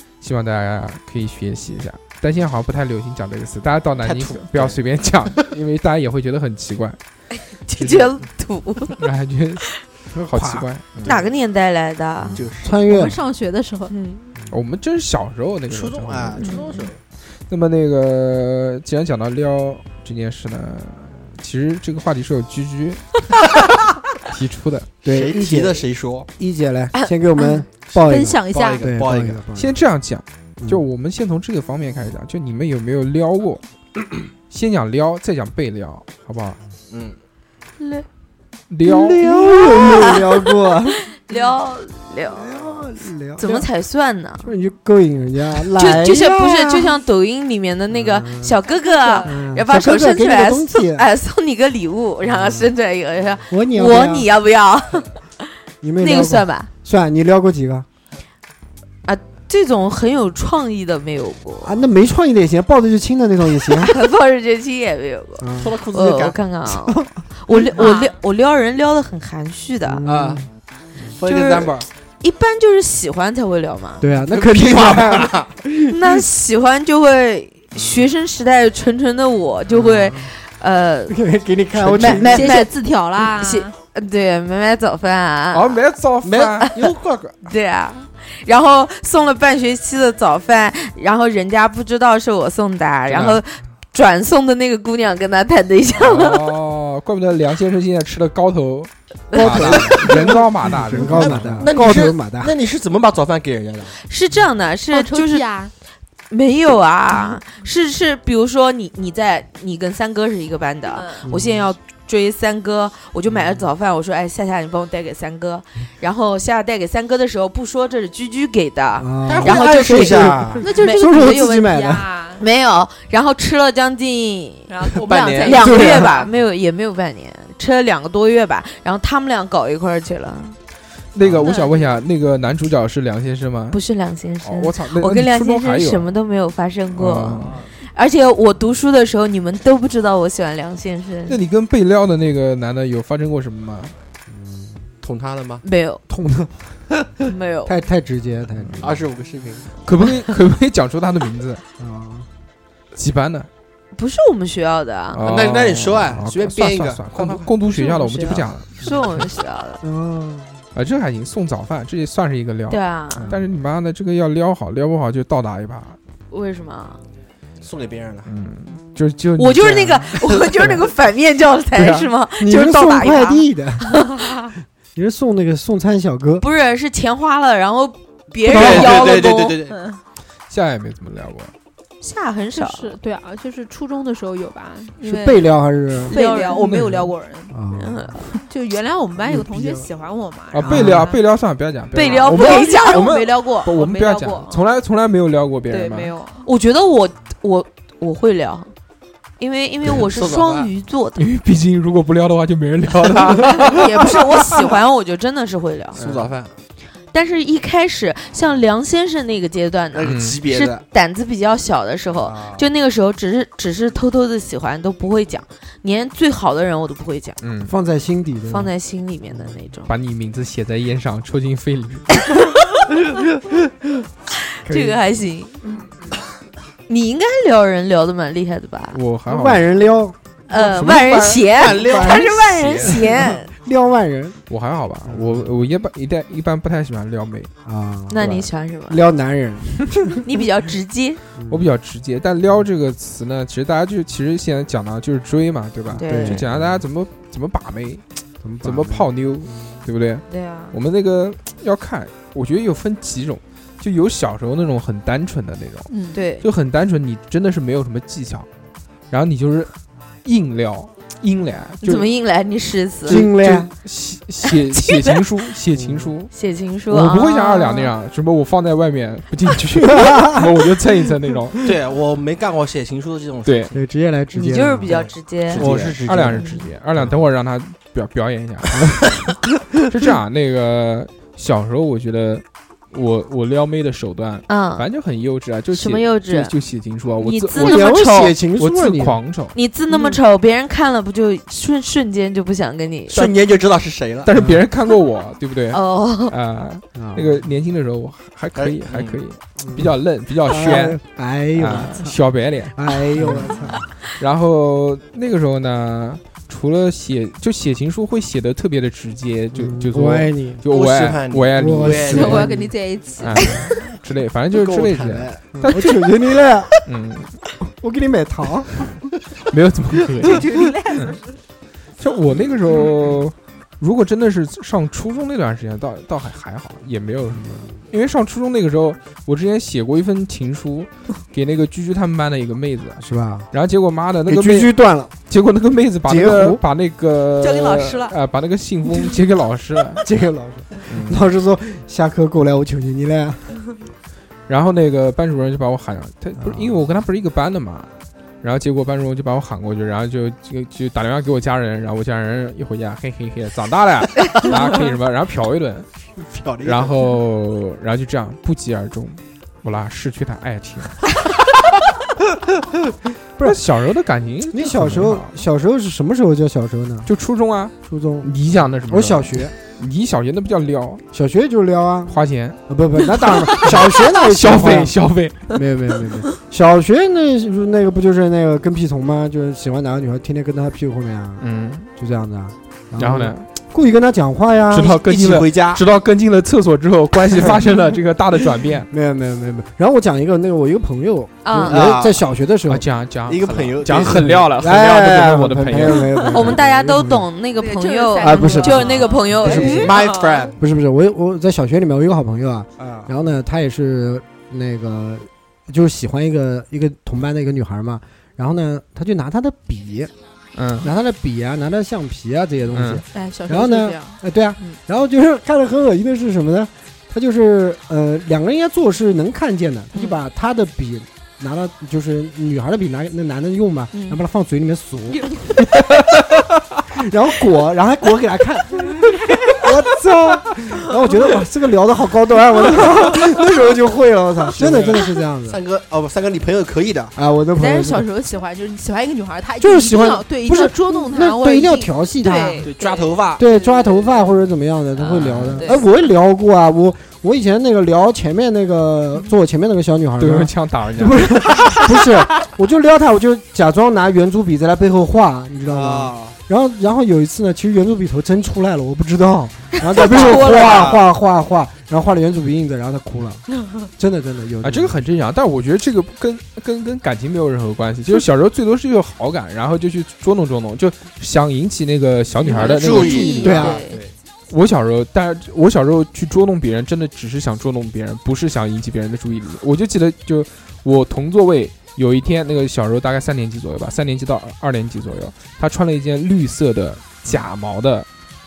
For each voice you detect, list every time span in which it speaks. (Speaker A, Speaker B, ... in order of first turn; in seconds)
Speaker A: 0.2-7.0, 7.7-8.2, 9.0-11.1, 14.5-16.6, 17.5-23.1, 24.2-24.9, 29.5-33.6, 34.5-36.6, 38.7-39.3, 85.5-86.7, 93.1-93.4, 96.0-101.7, 131.1-133.8, 134.4-136.1, 136.9-137.6, 141.3-143.9, 149.8-151.6, 152.9-153.5, 155.1-158.7, 160.7-166.0, 168.2-170.2, 180.5-181.5, 186.6-187.1, 190.5-196.1, 201.2-204.5, 206.0-206.3, 210.0-210.4, 217.4-217.7, 219.9-222.1, 228.9-229.7, 230.8-231.1, 234.5-237.5, 241.5-248.0, 248.6-258.5, 259.1-259.7, 260.2-262.1, 263.1-266.3, 266.9-271.6, 273.4-273.7, 275.5-278.8, 279.8-287.8, 288.6-289.6, 294.2-301.0, 301.5-312.5, 313.2-316.2, 316.8-317.4, 319.5-321.1, 322.0-334.8, 335.3-340.1, 340.9-341.3, 344.5-347.9, 348.4-355.9, 356.6-361.1, 363.4-365.3, 367.1-371.0, 372.1-375.6, 381.4-381.9, 383.0-383.4, 384.7-388.9, 392.7-396.6, 410.5-410.9, 412.7-413.0, 434.6-435.0, 445.2-445.6, 450.2-451.9, 464.6-473.6, 474.5-488.1
Speaker B: 4.0-4.8, 10.4-11.3, 12.3-12.8, 15.7-17.0, 25.1-26.3, 28.5-29.4, 36.9-37.2, 65.6-66.4, 70.0-70.4, 71.0-71.9, 74.3-75.5, 86.2-87.4, 99.3-100.4, 100.9-103.9, 119.2-120.7, 125.0-125.6, 137.4-137.7, 145.0-145.6, 148.8-149.8, 155.2-157.5, 167.6-168.3, 178.4-179.8, 200.0-200.7, 205.9-206.5, 209.9-210.8, 212.2-212.7, 231.5-233.0, 271.6-273.7, 274.9-277.1, 293.1-294.3, 298.5-299.2, 310.7-312.5, 314.5-315.4, 356.3-356.9, 384.7-385.8, 391.7-392.2, 393.3-394.4, 399.5-400.6, 402.8-403.1, 434.5-437.1, 442.6-443.4, 445.2-445.6, 455.6-456.4, 459.9-461.0, 472.4-474.1
Speaker C: 7.7-9.0, 11.0-12.4, 13.9-14.3, 16.4-16.9, 26.9-27.4, 37.8-38.0, 39.5-40.2, 41.2-42.8, 43.4-44.5, 45.8-56.7, 59.0-61.8, 63.8-70.0, 71.2-74.0, 75.9-81.2, 81.9-85.8, 87.4-96.5, 99.3-99.9, 104.0-105.4, 106.3-121.0, 122.4-130.6, 133.7-141.4, 145.6-146.0, 147.2-147.8, 153.9-155.2, 157.7-159.8, 162.7-163.3, 166.3-167.0, 169.4-173.4, 176.4-179.6, 182.0-182.9, 186.1-186.8, 187.8-188.2, 191.9-193.1, 196.4-198.7, 199.4-201.2, 203.4-206.0, 207.1-217.4, 218.5-219.9, 224.6-225.6, 226.9-229.0, 230.5-233.5, 238.1-239.0, 240.2-241.2, 246.0-246.4, 250.3-250.7, 256.1-256.4, 261.8-263.2, 264.7-265.2, 266.3-267.9, 274.3-275.6, 284.5-284.9, 285.7-286.5, 287.2-288.3, 289.5-293.3, 295.7-296.3, 391.4-391.9, 396.3-399.9, 459.9-461.0
Speaker D: 12.3-13.2, 25.0-25.9, 26.4-29.8, 38.8-41.0, 42.3-43.7, 44.4-47.0, 47.9-48.5, 49.2-51.0, 52.2-52.7, 53.5-54.3, 55.8-57.9, 61.6-63.9, 65.4-65.8, 66.7-67.1, 69.9-70.4, 74.0-76.2, 79.7-80.3, 81.1-82.6, 99.4-102.5, 111.2-111.7, 113.3-113.6, 119.0-122.0, 125.6-126.1, 144.3-144.9, 146.1-146.6, 147.7-149.0, 151.8-152.3, 159.8-160.6, 163.2-163.4, 170.4-170.8, 172.4-174.1, 174.9-176.4, 178.4-179.1, 185.0-186.1, 187.5-188.0, 189.2-189.9, 190.6-191.1, 217.6-218.7, 224.7-225.0, 229.3-232.3, 232.8-234.4, 235.0-235.5, 237.6-240.2, 241.4-241.7, 245.9-246.8, 248.4-249.7, 263.1-263.7, 265.7-266.1, 269.8-270.4, 273.7-275.0, 278.7-279.1, 287.5-289.2, 294.3-294.6, 296.9-297.5, 299.6-302.2, 302.7-303.8, 309.5-310.6, 311.5-312.7, 315.5-316.7, 317.6-318.9, 327.3-327.7, 333.0-333.5, 334.2-335.1, 336.1-336.6, 340.0-343.6, 346.4-346.8, 364.5-367.1, 367.8-368.3, 368.9-369.5, 371.1-374.9, 375.5-384.9, 388.9-392.9, 394.1-397.3, 398.2-400.0, 400.6-410.1, 410.8-425.8, 426.9-435.6, 437.1-438.1, 439.6-442.7, 443.4-463.4, 464.0-465.0, 473.4-473.9
Speaker E: 12.8-13.9, 27.9-28.8, 48.6-49.3, 67.7-68.1, 82.0-83.7, 104.9-105.7, 107.1-107.4, 110.9-111.3, 120.6-122.4, 124.7-126.3, 131.4-131.9, 179.7-180.0, 182.5-185.4, 186.0-187.5, 188.2-191.2, 191.9-194.6, 195.7-196.5, 255.9-256.2, 289.9-290.2, 312.1-313.9, 320.2-321.2, 337.4-338.2, 397.6-400.5, 413.1-414.8, 423.9-424.2, 425.1-425.4, 437.5-444.2, 445.6-445.9, 472.4-474.0